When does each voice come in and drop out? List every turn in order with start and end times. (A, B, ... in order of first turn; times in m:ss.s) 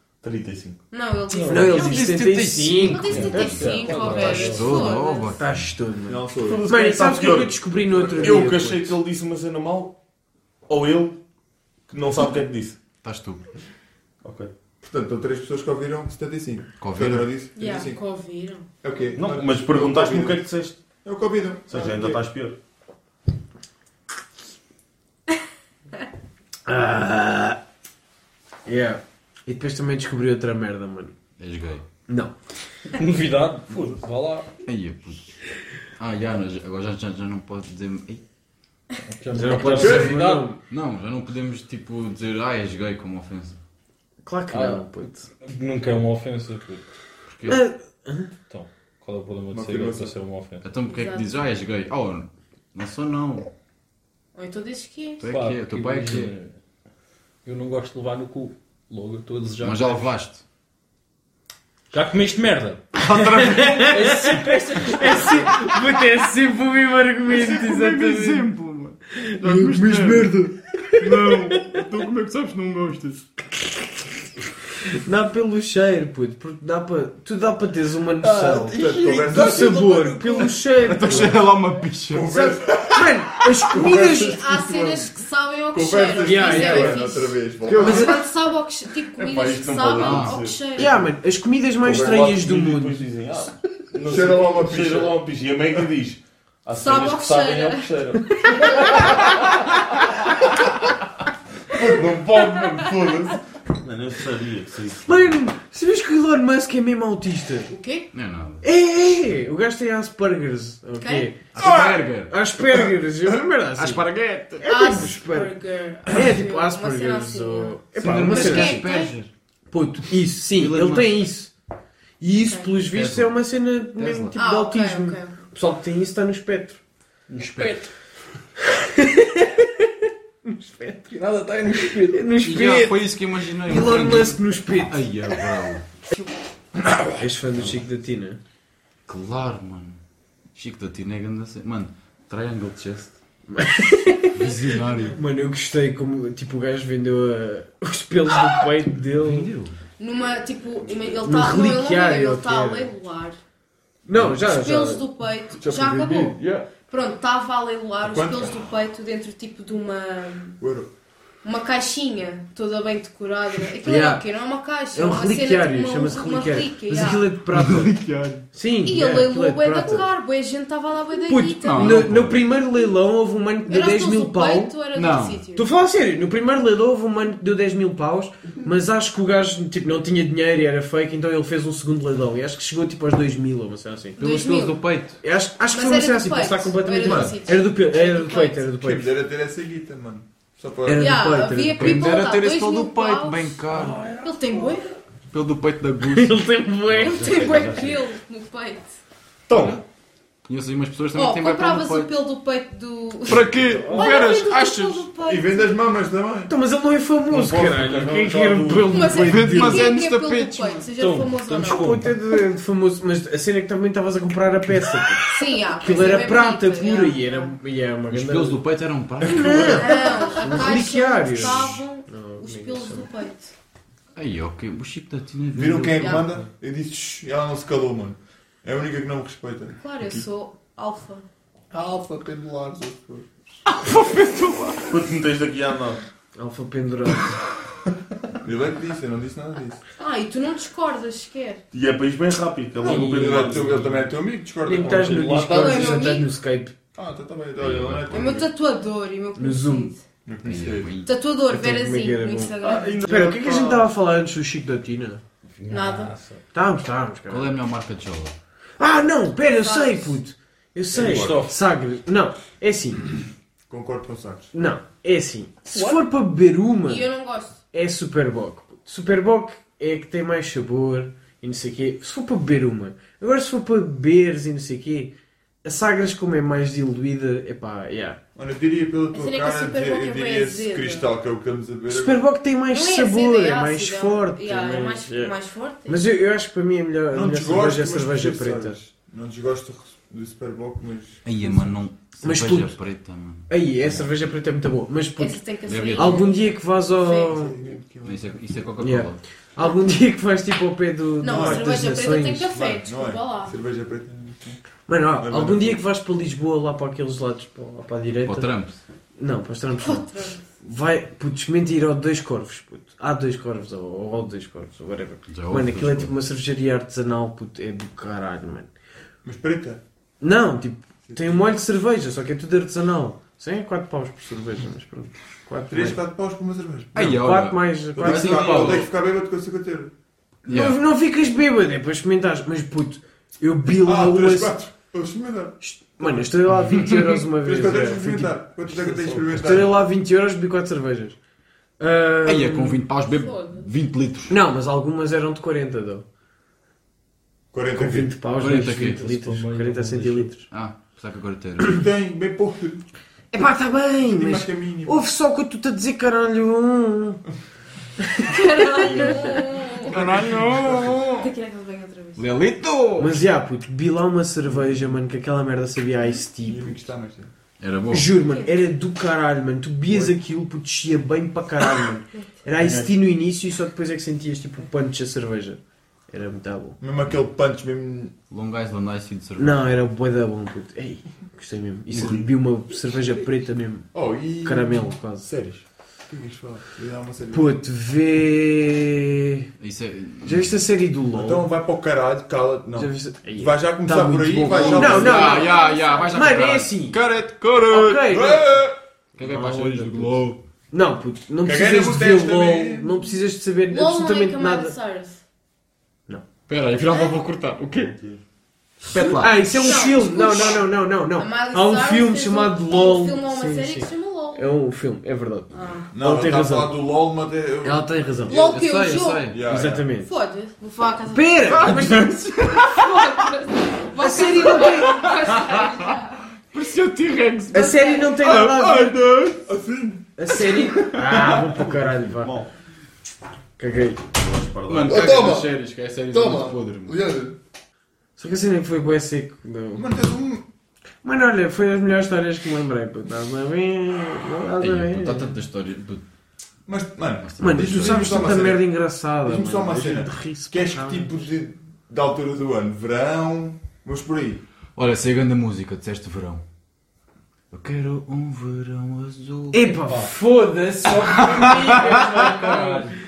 0:00.2-0:00.8 A
0:00.9-0:02.1 B
0:01.5-0:04.4 C
0:01.5-0:05.7 D
0:02.8-0:05.4 B
0:03.1-0:05.0 E
0:05.4-0:09.0 C
0:06.1-0:06.6 F
0:06.4-0:10.0 A
0:08.0-0:08.4 F
0:10.7-0:11.2 A
0:11.9-0:12.8 A
0:13.0-0:13.4 D
0:14.2-0:14.5 A
0:14.8-0:18.0 F
0:16.8-0:17.3 D
0:17.6-0:18.7 B
0:18.8-0:20.4 F
0:19.2-0:20.8 A
0:21.0-0:22.2 F
0:21.7-0:22.6 A
0:26.7-0:27.6 C
0:28.7-0:31.2 C
0:31.4-0:31.8 D
0:32.1-0:32.4 C
0:33.0-0:34.5 E
0:34.7-0:35.4 D
0:36.0-0:38.2 D
0:39.1-0:40.5 E
0:39.3-0:40.6 C
0:39.8-0:40.2 F
0:40.7-0:43.6 D
0:44.2-0:45.3 C
0:44.5-0:46.9 E
0:47.3-0:47.6 D
0:47.5-0:48.3 C
0:48.5-0:50.7 E
0:49.5-0:50.2 F
0:50.6-0:53.5 D
0:50.9-0:51.3 B
0:54.4-0:55.3 B
0:55.2-0:56.3 D
0:55.3-0:56.6 E
0:57.4-1:00.1 E
0:59.6-1:00.4 D
1:01.9-1:05.4 E
1:03.0-1:04.4 D
1:03.1-1:08.5 C
1:07.3-1:10.4 D
1:09.2-1:11.8 C
1:10.9-1:13.3 D
1:14.8-1:21.4 C
1:18.3-1:22.5 D
1:18.6-1:19.8 F
1:21.0-1:21.4 F
1:22.1-1:25.1 F
1:22.8-1:24.4 C
1:23.8-1:31.1 B
1:25.7-1:28.2 F
1:26.2-1:27.1 C
1:27.6-1:28.2 C
1:29.2-1:30.6 A
1:30.0-1:30.4 D
1:30.8-1:33.0 C
1:31.8-1:39.1 A
1:31.9-1:32.1 F
1:34.0-1:35.2 F
1:36.8-1:39.2 B
1:41.7-1:43.4 F
1:43.8-1:45.4 A
1:45.0-1:47.7 C
1:47.7-1:48.1 B
1:48.1-1:48.6 D
1:48.6-1:58.9 C
1:51.0-1:51.3 B
1:51.6-1:52.3 D
1:51.6-1:51.9 F
1:53.8-1:54.6 D
1:54.6-1:59.1 B
1:58.0-1:59.3 D
1:59.7-2:01.5 C
2:00.6-2:01.2 D
2:02.2-2:06.8 C
2:02.5-2:02.7 B
2:02.9-2:03.4 D
2:04.0-2:04.4 D
2:04.4-2:05.4 B
2:07.3-2:07.9 D
2:08.7-2:09.9 C
2:10.4-2:11.2 C
2:11.1-2:15.9 D
2:11.9-2:13.1 C
2:13.6-2:15.1 C
2:17.2-2:18.4 C
2:19.1-2:20.0 D
2:20.6-2:23.2 D
2:23.5-2:24.3 C
2:24.3-2:25.2 D
2:25.1-2:29.5 C
2:29.2-2:29.8 D
2:30.0-2:33.4 B
2:31.2-2:32.9 C
2:34.1-2:35.0 C
2:34.4-2:40.6 B
2:35.5-2:36.4 F
2:36.4-2:36.6 D
2:38.0-2:38.7 F
2:40.6-2:40.9 F
2:41.4-2:47.3 B
2:43.8-2:44.2 C
2:44.9-2:48.0 C
2:47.5-2:48.4 D
2:48.5-2:50.1 C
2:48.8-2:52.1 B
2:51.3-2:54.7 C
2:51.6-2:52.4 D
2:53.7-2:55.7 B
2:54.9-2:55.4 D
2:55.6-3:04.3 C
3:04.2-3:04.8 B
3:04.2-3:05.2 D
3:05.2-3:09.1 C
3:05.7-3:08.7 B
3:08.8-3:11.2 F
3:10.9-3:12.0 C
3:11.0-3:13.6 B
3:11.8-3:14.1 D
3:13.8-3:14.2 C
3:14.2-3:14.9 B
3:15.3-3:18.1 D
3:16.1-3:17.4 C
3:16.9-3:19.0 B
3:19.5-3:19.8 A
3:19.5-3:19.8 D
3:20.5-3:22.1 D
3:21.2-3:25.7 B
3:23.3-3:25.1 D
3:23.8-3:24.2 C
3:25.2-3:26.5 F
3:26.5-3:29.9 C
3:27.3-3:29.2 A
3:28.9-3:32.0 B
3:29.2-3:30.9 D
3:31.0-3:32.1 E
3:31.6-3:38.6 C
3:35.3-3:37.5 B
3:38.1-3:40.7 D
3:39.3-3:43.1 C
3:39.6-3:43.5 B
3:44.2-3:46.3 D
3:45.5-3:50.3 F
3:46.0-3:46.3 B
3:49.8-3:51.3 B
3:51.7-3:53.6 F
3:53.7-3:54.9 D
3:54.9-3:56.0 A
3:56.4-3:57.4 C
3:58.4-3:59.8 F
4:00.0-4:01.6 B
4:01.7-4:04.0 A
4:02.8-4:03.7 C
4:02.8-4:05.5 F
4:04.6-4:06.7 C
4:05.5-4:05.7 A
4:05.5-4:06.3 B
4:07.0-4:08.5 F
4:07.6-4:08.4 D
4:08.1-4:10.0 B
4:09.4-4:09.9 C
4:10.2-4:10.9 F
4:10.4-4:11.1 D
4:11.0-4:13.4 B
4:11.5-4:15.2 C
4:12.7-4:13.8 A
4:15.7-4:16.1 B
4:16.5-4:17.5 C
4:17.3-4:18.4 D
4:18.8-4:23.1 C
4:19.5-4:20.2 B
4:21.0-4:21.4 A
4:21.1-4:21.5 E
4:23.7-4:24.5 F
4:24.5-4:27.1 C
4:26.8-4:27.6 B
4:27.7-4:35.1 C
4:35.6-4:38.2 C
4:38.4-4:42.2 F
4:39.1-4:41.1 B
4:41.9-4:45.3 C
4:42.7-4:46.0 B
4:45.9-4:48.8 C
4:47.1-4:51.3 F
4:51.2-4:54.1 D
4:52.2-4:52.8 C
4:53.5-4:55.4 C
4:55.2-4:57.5 B
4:55.7-4:56.3 D
4:56.0-4:57.6 C
4:57.3-4:58.4 F
4:58.0-4:59.2 D
4:58.8-5:02.5 C
5:01.2-5:03.6 B
5:01.2-5:04.6 F
5:04.9-5:08.5 C
5:05.2-5:05.8 F
5:08.2-5:08.8 D
5:09.2-5:18.7 C
5:09.8-5:10.4 B
5:15.3-5:16.2 D
5:19.2-5:19.8 F
5:20.2-5:26.0 C
5:21.1-5:21.5 F
5:25.7-5:27.0 F
5:27.0-5:28.9 C
5:27.0-5:28.9 D
5:28.0-5:29.9 F
5:30.5-5:30.8 D
5:30.5-5:34.6 C
5:33.8-5:36.3 F
5:35.6-5:41.2 C
5:37.4-5:39.8 F
5:41.8-5:42.8 C
5:42.2-5:44.4 D
5:43.1-5:43.7 B
5:44.3-5:46.0 C
5:47.5-5:48.1 F
5:47.8-5:50.5 C
5:48.4-5:49.1 D
5:49.0-5:50.3 E
5:50.5-5:51.8 D
5:51.6-5:52.9 F
5:53.3-5:57.2 C
5:54.0-5:55.0 F
5:58.1-5:59.4 C
5:58.3-6:00.0 B
5:58.9-5:59.3 D
5:59.8-6:01.3 D
5:59.9-6:01.1 F
6:01.2-6:02.3 B
6:02.2-6:03.2 D
6:03.0-6:06.9 C
6:04.5-6:04.9 F
6:06.4-6:07.3 F
6:07.6-6:08.1 D
6:07.9-6:16.8 C
6:08.2-6:08.5 B
6:09.9-6:10.1 F
6:12.6-6:12.9 F
6:16.8-6:18.1 F
6:18.3-6:19.6 D
6:19.4-6:23.9 C
6:23.9-6:25.4 F
6:24.4-6:25.5 C
6:26.1-6:27.6 F
6:27.3-6:29.5 C
6:29.6-6:30.5 D
6:30.2-6:31.5 C
6:31.1-6:35.3 F
6:32.7-6:35.6 C
6:34.4-6:38.1 D
6:34.6-6:36.4 B
6:36.1-6:37.0 C
6:37.6-6:38.5 C
6:38.1-6:38.8 F
6:39.2-6:40.4 D
6:39.2-6:40.2 C
6:40.7-6:44.8 C
6:41.4-6:43.2 F
6:43.7-6:45.2 B
6:46.5-6:48.0 D
6:46.9-6:47.2 B
6:48.0-6:48.2 A
6:48.8-6:49.9 D
6:48.9-6:56.8 C
6:49.5-6:54.5 B
6:55.5-6:55.9 B
6:55.9-6:58.5 F
6:57.6-6:58.5 C
6:58.3-6:59.4 B
6:58.4-6:59.4 D
6:59.3-6:59.9 F
6:59.4-7:00.1 C
7:00.0-7:01.8 B
7:01.1-7:02.2 C
7:01.6-7:03.0 D
7:02.5-7:06.2 B
7:04.0-7:05.0 C
7:04.4-7:05.7 D
7:06.5-7:09.4 D
7:07.5-7:09.0 C
7:07.6-7:08.1 B
7:09.4-7:10.1 F
7:10.2-7:12.4 C
7:10.8-7:11.4 D
7:11.2-7:12.5 A
7:13.6-7:14.0 C
7:14.1-7:15.3 A
7:14.7-7:17.0 D
7:14.9-7:15.6 F
7:16.1-7:17.4 F
7:18.2-7:19.9 C
7:19.8-7:20.5 F
7:21.0-7:25.3 C
7:24.6-7:26.0 D
7:26.7-7:28.6 F
7:27.2-7:28.5 D
7:27.4-7:31.2 C
7:29.2-7:34.4 F
7:34.8-7:36.4 D
7:37.5-7:39.8 D
7:39.5-7:43.0 C
7:39.9-7:40.1 E
7:41.3-7:42.4 D
7:41.4-7:42.9 E